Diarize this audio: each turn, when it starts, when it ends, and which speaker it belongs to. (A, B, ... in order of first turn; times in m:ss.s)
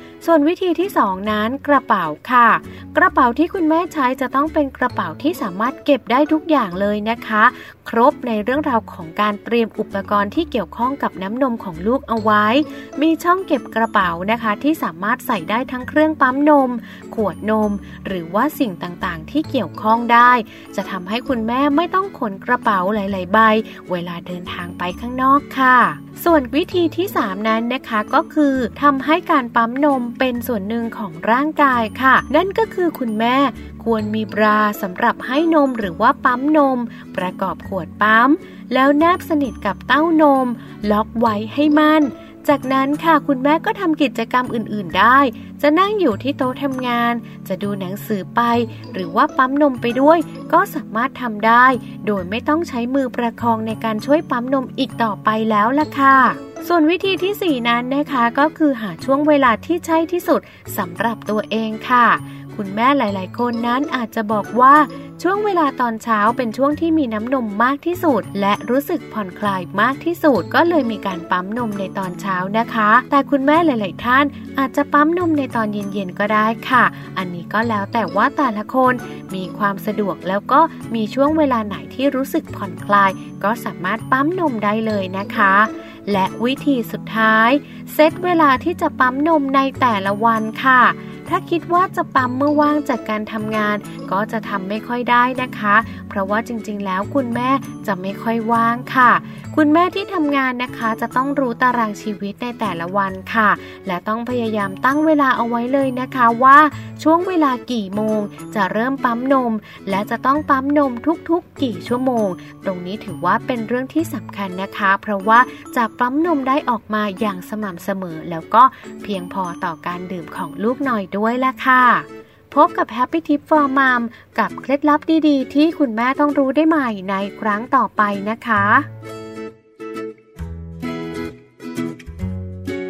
0:00.2-2:08.9 A